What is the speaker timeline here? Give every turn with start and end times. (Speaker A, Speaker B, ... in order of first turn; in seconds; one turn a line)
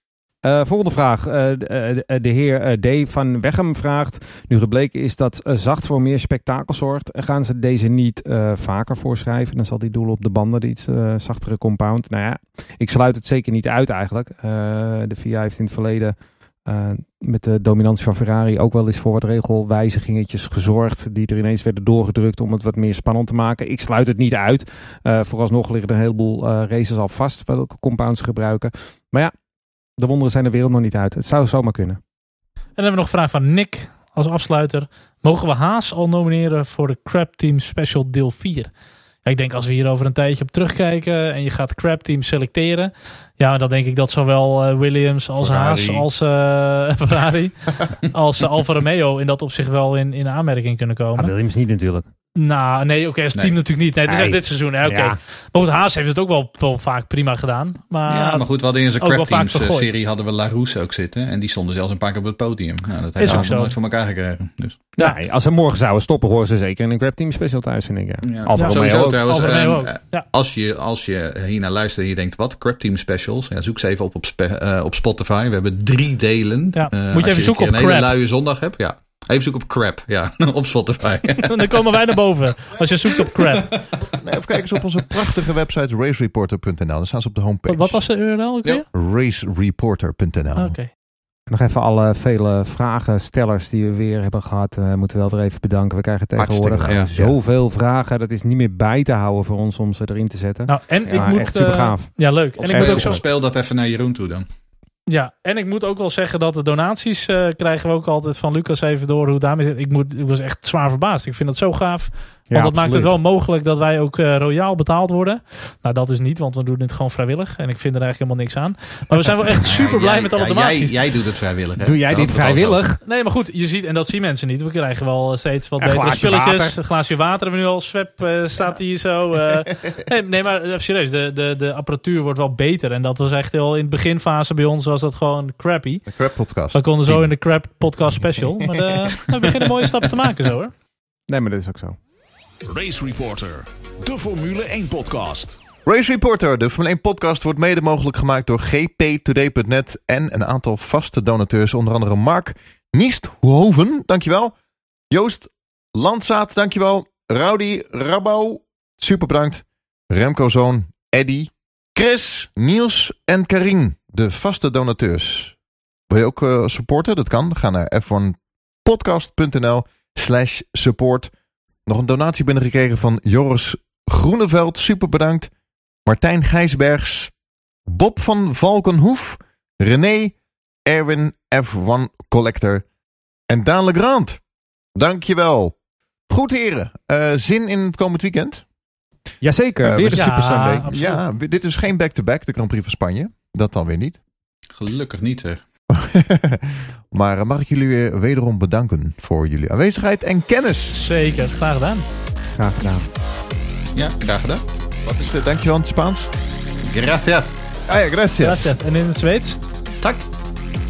Speaker A: 0.4-16.1
Speaker A: 16.6-29.3
Speaker A: 30.0-32.0
Speaker B: 32.8-38.7
Speaker B: 39.2-51.3
Speaker C: 45.4-46.0
Speaker A: 51.1-52.0
Speaker B: 52.4-58.4
Speaker A: 54.1-55.2
Speaker D: 58.1-64.9
Speaker B: 59.0-59.9
Speaker B: 63.2-63.7
Speaker A: 65.0-69.2
Speaker D: 68.2-81.8
Speaker B: 68.5-70.2
Speaker B: 76.7-78.1
Speaker B: 81.4-83.9
Speaker D: 83.0-84.0
Speaker C: 84.2-88.0
Speaker B: 87.7-88.8
Speaker C: 88.9-90.8
Speaker B: 90.5-90.9
Speaker A: 91.5-103.2
Speaker C: 96.3-97.4
Speaker D: 96.8-97.1
Speaker B: 100.7-103.2
Speaker D: 102.6-104.5
Speaker B: 105.1-120.9
Speaker A: 112.5-113.2
Speaker D: 119.6-122.8
Speaker A: 121.8-123.0
Speaker B: 123.0-136.1
Speaker A: 125.8-126.8
Speaker C: 136.1-137.3
Speaker B: 136.7-140.7
Speaker A: 141.3-141.9
Speaker E: 142.7-145.6
Speaker C: 145.8-154.5
Speaker C: 155.1-165.5
Speaker C: 166.1-171.3
Speaker C: 171.8-175.5
Speaker C: 176.0-177.3
Speaker C: 177.9-180.3
Speaker C: 180.8-182.8
Speaker C: 183.5-184.4
Speaker C: 184.9-185.8
Speaker C: 186.3-188.6
Speaker A: 189.4-190.9
Speaker C: 189.8-194.2
Speaker B: 190.2-191.2
Speaker D: 194.8-195.6
Speaker C: 195.9-201.0
Speaker B: 200.9-202.0
Speaker A: 202.6-203.1
Speaker D: 203.9-204.6
Speaker C: 205.1-206.3
Speaker D: 206.9-207.5
Speaker C: 207.9-208.7
Speaker B: 208.4-209.6